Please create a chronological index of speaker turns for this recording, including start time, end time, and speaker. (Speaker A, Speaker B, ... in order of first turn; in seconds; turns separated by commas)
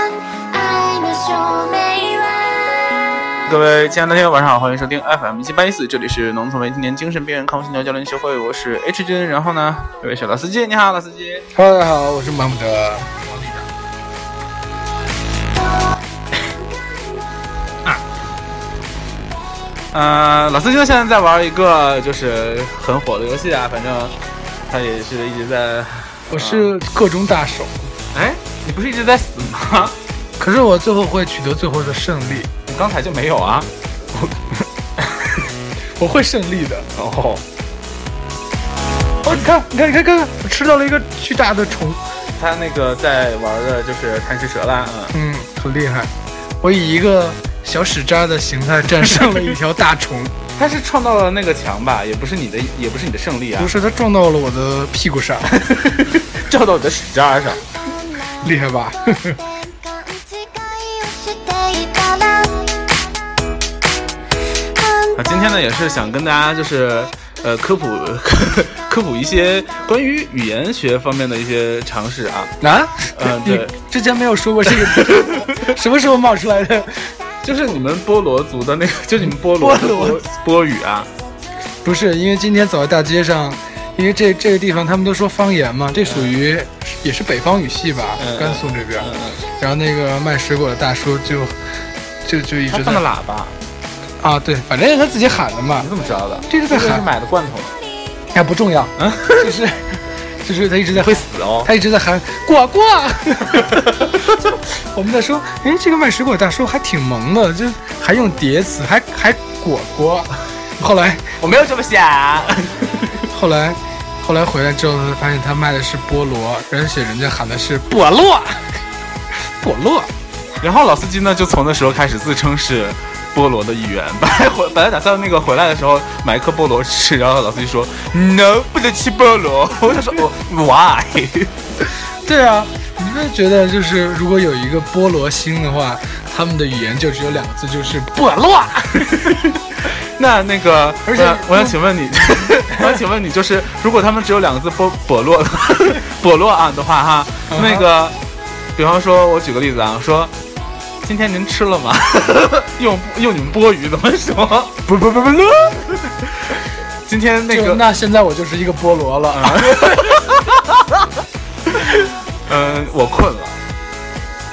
Speaker A: 0.5-2.6, Speaker B: 3.5-11.5, Speaker C: 11.5-13.2, Speaker B: 13.2-13.7, Speaker B: 19.9-24.1, Speaker B: 24.7-26.7, Speaker C: 26.3-27.9, Speaker B: 28.1-29.9, Speaker C: 30.4-32.5, Speaker B: 32.7-33.7, Speaker C: 36.0-36.9, Speaker B: 36.9-37.4, Speaker C: 39.2-42.0, Speaker B: 42.3-45.1, Speaker C: 45.1-50.4, Speaker B: 49.0-49.5, Speaker B: 50.5-53.7, Speaker C: 53.6-55.7, Speaker B: 55.8-57.6, Speaker C: 58.4-59.4, Speaker A: 60.6-62.6, Speaker B: 65.1-72.5, Speaker C: 72.6-77.1, Speaker B: 73.1-73.7, Speaker B: 75.0-75.4, Speaker B: 77.4-81.1, Speaker C: 79.4-80.2, Speaker C: 81.8-91.6, Speaker B: 85.9-86.3, Speaker B: 88.2-89.4, Speaker C: 92.2-93.0, Speaker B: 92.7-93.6, Speaker C: 94.2-95.9, Speaker B: 95.8-97.7, Speaker C: 96.5-97.0, Speaker C: 98.3-111.3, Speaker B: 99.0-99.5, Speaker B: 100.9-101.7, Speaker B: 111.4-113.2, Speaker C: 113.2-118.8, Speaker C: 119.4-120.1, Speaker B: 120.6-131.5, Speaker C: 132.2-139.2, Speaker B: 139.2-148.2, Speaker C: 141.1-141.8, Speaker C: 147.5-147.8, Speaker B: 148.8-150.3, Speaker B: 151.0-154.7, Speaker C: 154.8-155.9, Speaker B: 157.1-157.8, Speaker C: 157.5-160.3, Speaker B: 159.3-161.0, Speaker B: 161.8-163.6